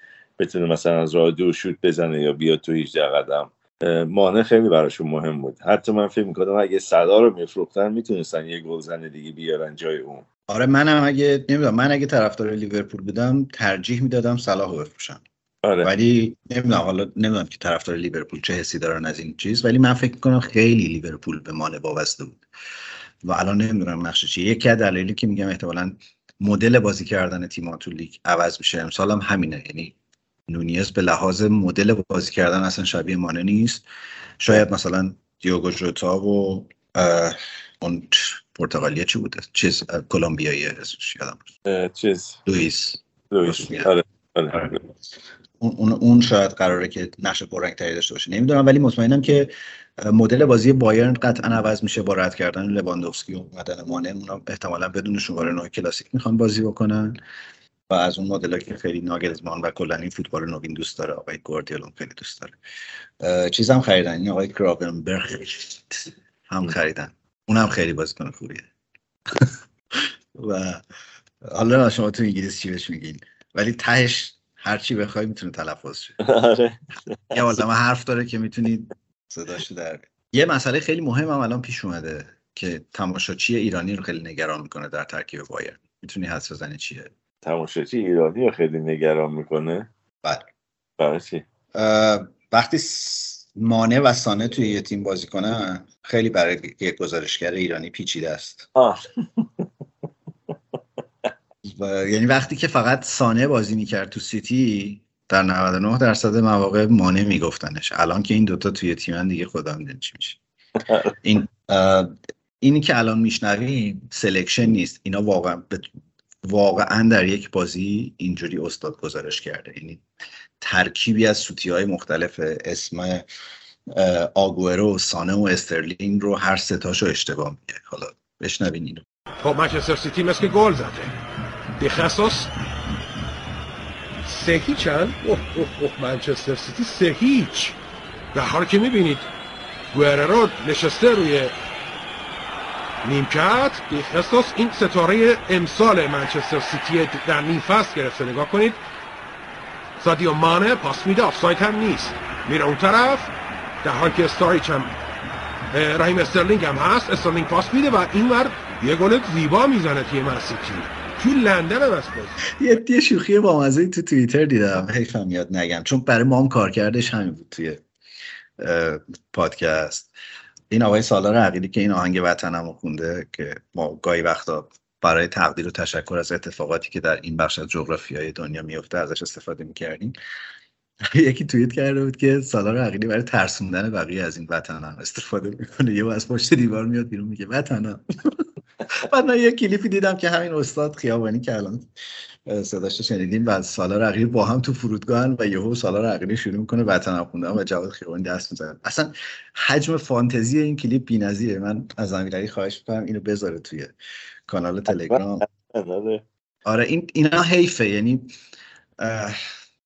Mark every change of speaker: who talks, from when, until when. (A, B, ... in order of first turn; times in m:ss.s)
0:00.4-0:10.2 A
0:10.5-0:15.2 B
0:15.6-0:15.9 A
0:15.8-0:22.4 B
0:23.2-0:30.0 B
0:30.5-0:33.8 B
0:34.4-0:41.5 B
0:41.7-0:42.4 A
0:42.5-0:43.9 B
0:43.3-0:44.8 A
0:45.6-0:57.2 B
0:57.9-1:02.6 B
1:03.2-1:08.7 B
1:09.3-1:10.8 B
1:11.4-1:16.2 B
1:16.2-1:16.8 A
1:17.3-1:27.1 B
1:27.4-1:29.9 A
1:31.0-1:31.4 A
1:31.8-1:38.7 B
1:38.8-1:39.7 A
1:41.6-1:50.4 B
1:50.9-1:51.1 A
1:51.2-1:55.9 B
1:56.4-2:00.0 B
2:00.6-2:03.2 B
2:03.9-2:09.0 B
2:09.4-2:11.1 C
2:11.8-2:12.5 C
2:14.2-2:17.8 C
2:18.3-2:19.3 C
2:19.9-2:21.5 C
2:23.0-2:28.8 C
2:30.0-2:33.3 C
2:33.8-2:34.9 C
2:35.7-2:42.4 C
2:42.6-2:47.8 B
2:48.6-2:50.1 B
2:50.7-3:00.2 B
3:01.1-3:11.9 B
3:12.5-3:23.9 B
3:24.5-3:25.5 B
3:25.0-3:26.2 A
3:26.6-3:28.3 B
3:29.0-3:29.4 B